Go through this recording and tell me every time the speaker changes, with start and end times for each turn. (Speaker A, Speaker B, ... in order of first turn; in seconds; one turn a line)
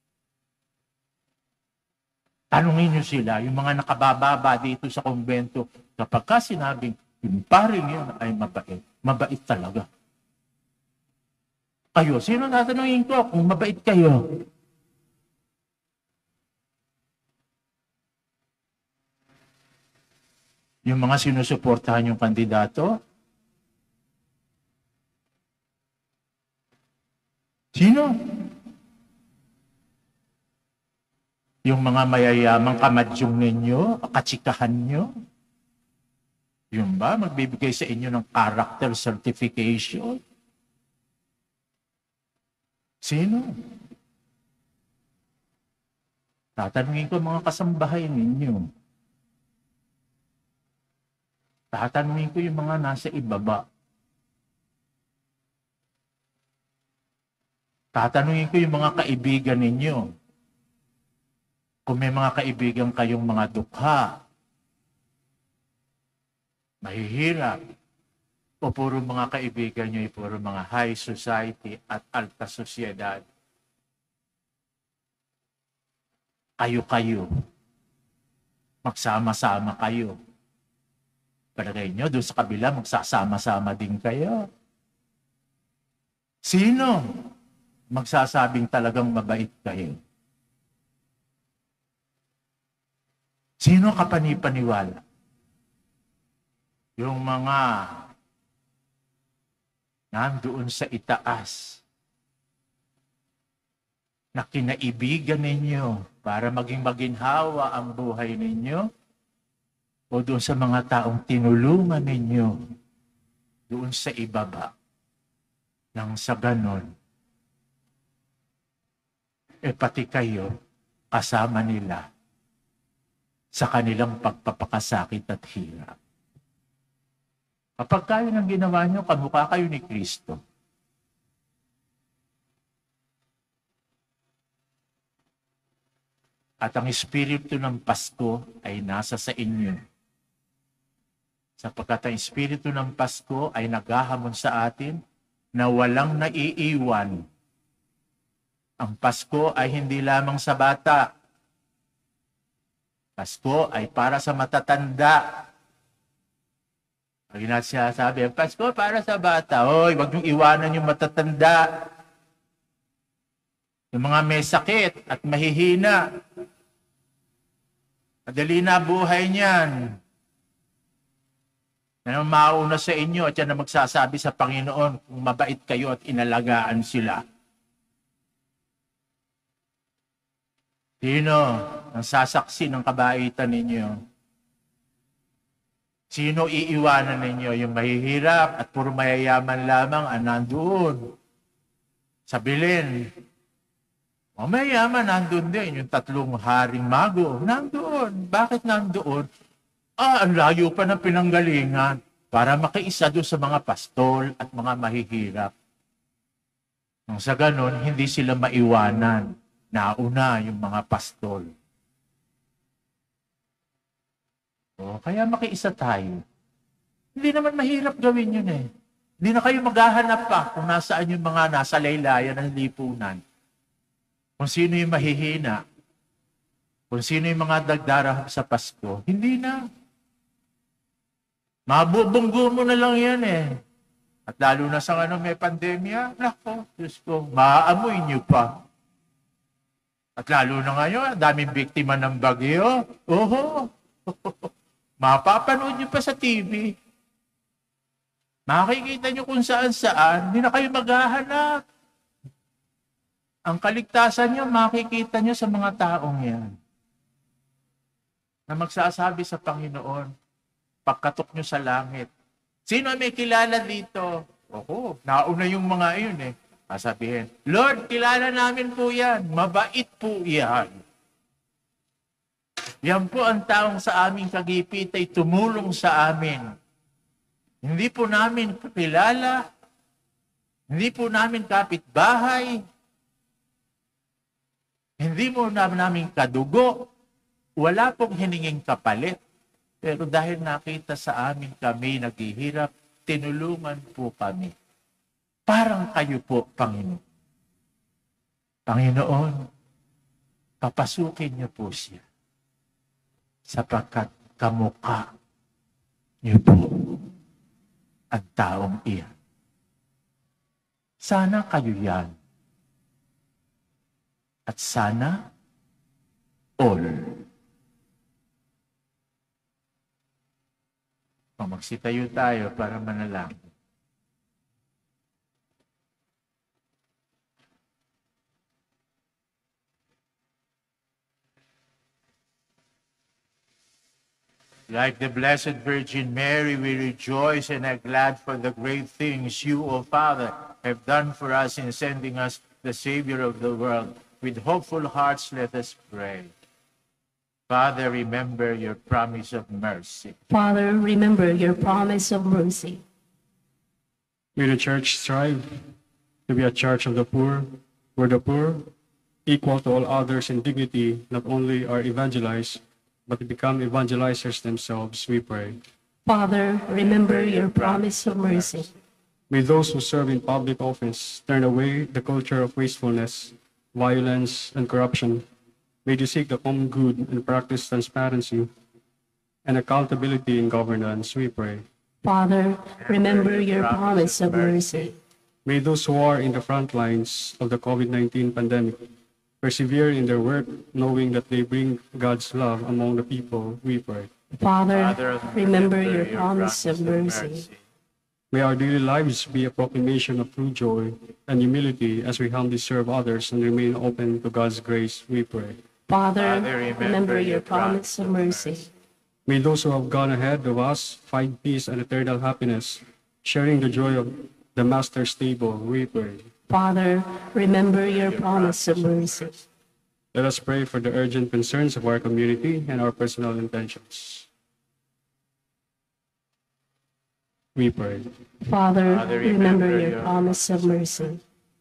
Speaker A: 2.5-9.9
Speaker A: 11.9-14.2
Speaker A: 20.9-22.9
Speaker A: 27.8-28.4
Speaker A: 31.6-35.1
Speaker A: 36.7-40.2
Speaker A: 43.0-43.5
Speaker A: 46.6-48.6
Speaker A: 51.7-53.6
Speaker A: 58.0-60.1
Speaker A: 61.9-64.1
Speaker A: 66.8-67.6
Speaker A: 68.6-73.2
Speaker A: 76.6-77.3
Speaker A: 78.8-80.2
Speaker A: 81.6-84.4
Speaker A: 86.5-87.0
Speaker A: 87.9-90.0
Speaker A: 93.6-95.0
Speaker A: 97.0-98.0
Speaker A: 100.1-101.8
Speaker A: 104.4-108.9
Speaker A: 110.1-112.5
Speaker A: 113.7-114.7
Speaker A: 116.0-116.9
Speaker A: 119.7-120.5
Speaker A: 121.1-122.1
Speaker A: 123.5-126.0
Speaker A: 127.8-130.4
Speaker A: 136.6-139.8
Speaker A: 141.6-145.0
Speaker A: 145.6-147.2
Speaker A: 148.8-151.1
Speaker A: 153.2-155.2
Speaker A: 157.3-161.8
Speaker A: 163.9-166.0
Speaker A: 168.3-170.0
Speaker A: 172.1-177.2
Speaker A: 181.0-184.0
Speaker A: 186.1-191.1
Speaker A: 192.3-192.9
Speaker A: 194.4-199.3
Speaker A: 200.0-205.5
Speaker A: 207.1-211.5
Speaker A: 214.8-216.2
Speaker A: 217.2-218.6
Speaker A: 219.2-223.2
Speaker A: 224.4-225.6
Speaker A: 226.9-229.6
Speaker A: 231.7-233.6
Speaker A: 234.3-238.6
Speaker A: 240.2-244.5
Speaker A: 245.0-246.7
Speaker A: 248.5-251.6
Speaker A: 253.5-256.5
Speaker A: 258.5-260.1
Speaker A: 260.9-262.1
Speaker A: 262.7-270.7
Speaker A: 272.8-276.5
Speaker A: 277.6-279.4
Speaker A: 280.7-282.6
Speaker A: 285.0-286.9
Speaker A: 287.6-289.2
Speaker A: 289.8-294.5
Speaker A: 295.5-297.0
Speaker A: 298.7-299.4
Speaker A: 300.6-302.1
Speaker A: 303.5-305.1
Speaker A: 306.2-307.0
Speaker A: 308.1-309.1
Speaker A: 311.0-312.1
Speaker A: 314.5-315.2
Speaker A: 316.6-317.2
Speaker A: 321.4-323.5
Speaker A: 334.7-346.3
Speaker A: 347.5-350.2
Speaker B: 350.3-352.8
Speaker C: 354.4-355.6
Speaker C: 356.3-358.7
Speaker C: 359.3-365.6
Speaker B: 366.1-368.7
Speaker A: 366.8-368.7
Speaker C: 369.3-375.3
Speaker C: 375.9-378.5
Speaker C: 379.4-381.7
Speaker B: 382.0-385.0
Speaker A: 382.8-384.9
Speaker C: 385.4-388.9
Speaker C: 389.4-394.1
Speaker B: 394.3-397.5
Speaker A: 394.7-397.6
Speaker C: 398.3-405.6
Speaker B: 405.9-408.7
Speaker A: 406.2-408.7
Speaker C: 409.3-416.3
Speaker B: 416.5-419.4
Speaker A: 417.9-419.4
Speaker C: 420.1-424.3
Speaker C: 427.6-428.1
Speaker B: 428.4-431.2
Speaker A: 428.9-430.6